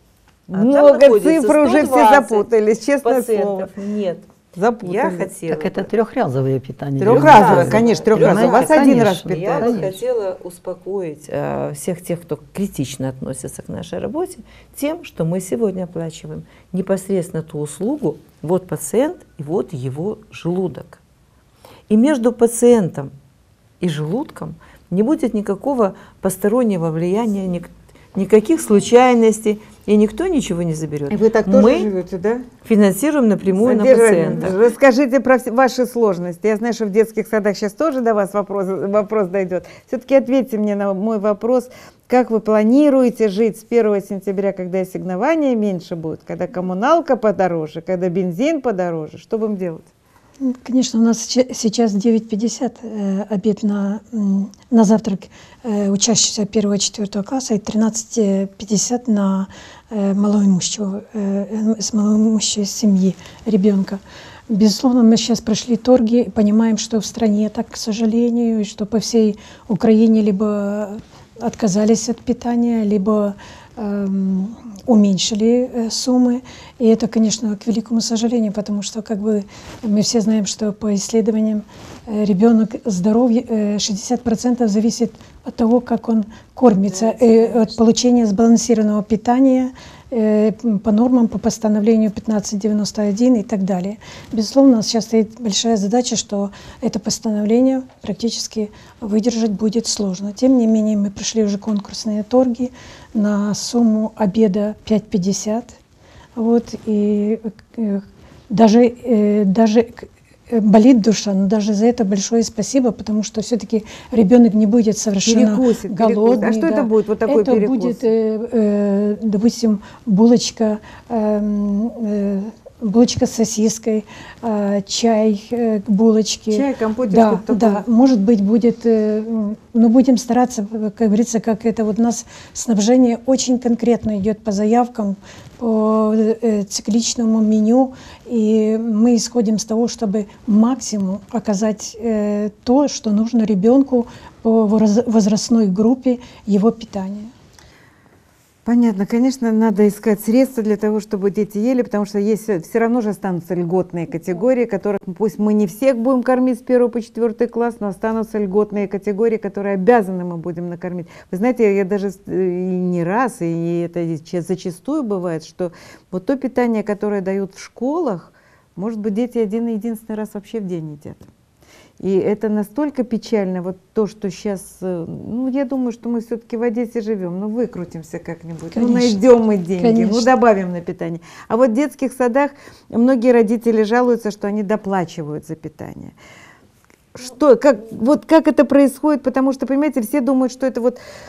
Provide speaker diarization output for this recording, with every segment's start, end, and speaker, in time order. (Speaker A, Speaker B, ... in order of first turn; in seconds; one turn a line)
Speaker A: 0.5-2.5
Speaker B: 0.5-3.7
Speaker A: 3.0-4.3
Speaker B: 4.5-5.3
Speaker A: 4.8-5.9
Speaker C: 5.5-9.9
Speaker B: 7.0-9.8
Speaker A: 7.1-21.0
Speaker A: 21.9-23.1
Speaker A: 23.8-31.9
Speaker B: 31.1-32.5
Speaker A: 32.6-34.6
Speaker B: 33.5-49.9
Speaker D: 50.4-105.7
Speaker B: 86.8-87.7
Speaker D: 106.4-147.3
Speaker B: 115.2-118.0
Speaker B: 126.5-127.9
Speaker B: 148.7-171.2
Speaker B: 172.0-186.1
Speaker D: 178.7-179.2
Speaker D: 179.8-180.3
Speaker B: 187.1-191.0